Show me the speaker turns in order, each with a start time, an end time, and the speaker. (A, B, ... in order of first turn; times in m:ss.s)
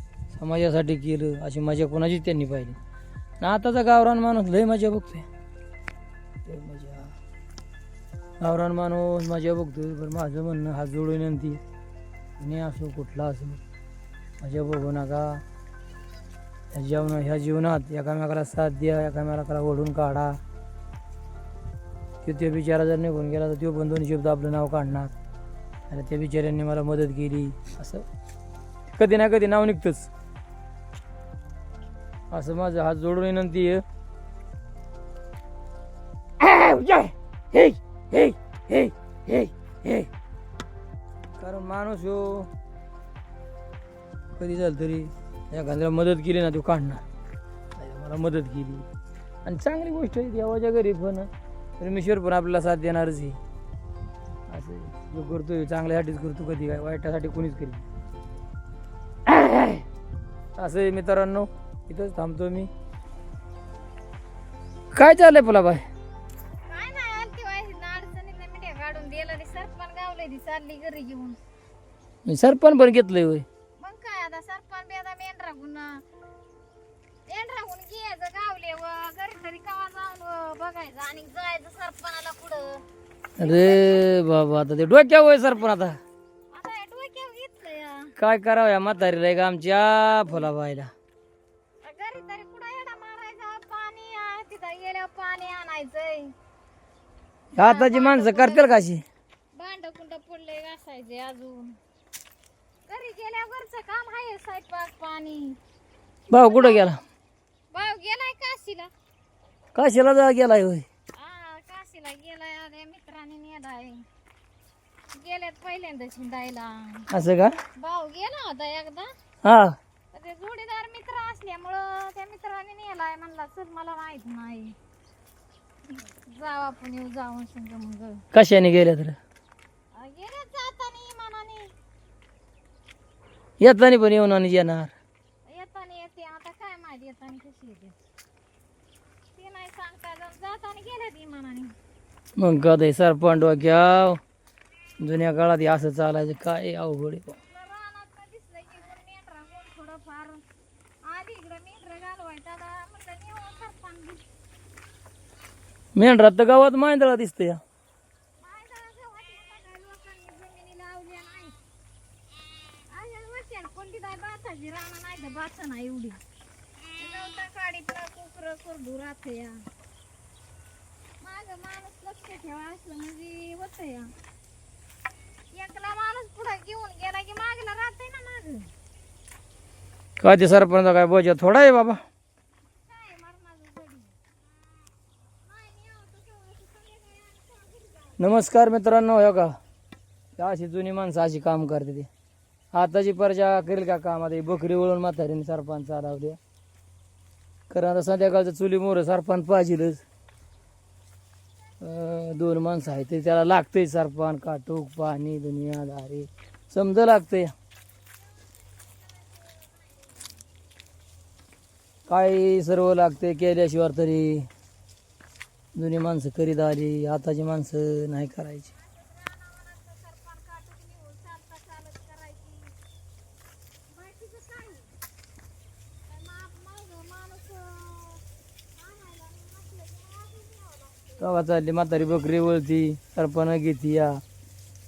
0:00.3-0:02.8 A
0:03.4-0:05.3 A
0:06.4-0:07.1 A
0:08.4-0:11.6 A
0:12.4-0:13.6 A
0:14.4-0:15.4 A
0:16.7-0:20.4 A
0:22.2-0:25.1 A
0:25.9-0:28.0 A
0:28.9-0:30.1 A
0:32.3-0:33.8 A
0:36.4-0:40.1 A
0:41.4-0:42.5 A
0:44.4-0:47.0 A
0:47.8-0:48.9 A
0:49.4-0:53.4 A
0:54.5-0:57.8 A
0:59.3-0:59.8 A
1:00.6-1:02.7 A
1:04.9-1:05.8 A
1:06.7-1:11.4 B
1:12.2-1:13.4 A
1:13.8-1:16.0 B
1:17.3-1:22.8 B
1:23.4-1:26.0 A
1:23.4-1:24.1 B
1:26.5-1:28.1 B
1:28.2-1:30.9 A
1:31.8-1:36.3 B
1:37.5-1:39.0 A
1:37.6-1:38.7 B
1:39.5-1:41.8 B
1:42.9-1:45.6 B
1:46.3-1:47.0 A
1:46.3-1:46.9 B
1:47.7-1:48.9 B
1:49.7-1:50.8 A
1:51.1-1:54.0 B
1:55.1-1:57.1 B
1:57.1-1:57.5 A
1:57.8-1:59.1 B
1:59.4-1:59.8 A
2:00.1-2:04.8 B
2:05.9-2:08.2 B
2:08.3-2:09.2 A
2:09.9-2:11.7 B
2:13.6-2:14.9 A
2:15.5-2:18.0 B
2:19.3-2:21.7 B
2:22.4-2:24.2 A
2:25.0-2:27.4 A
2:27.5-2:30.4 B
2:31.0-2:34.2 B
2:35.9-2:37.6 A
2:38.4-2:41.6 B
2:42.9-2:46.2 B
2:47.0-2:49.6 B
2:51.2-2:54.1 B
2:55.5-2:58.7 B
3:00.2-3:02.0 A
3:02.7-3:04.2 B
3:05.4-3:08.3 B
3:08.2-3:09.6 A
3:10.4-3:12.1 A
3:12.7-3:16.4 A
3:17.7-3:20.0 A
3:21.8-3:27.5 A
3:28.2-3:30.5 B
3:32.1-3:34.5 A
3:35.7-3:38.7 A
3:38.7-3:42.8 B
3:43.9-3:44.9 B
3:46.0-3:51.3 B
3:51.2-3:54.2 A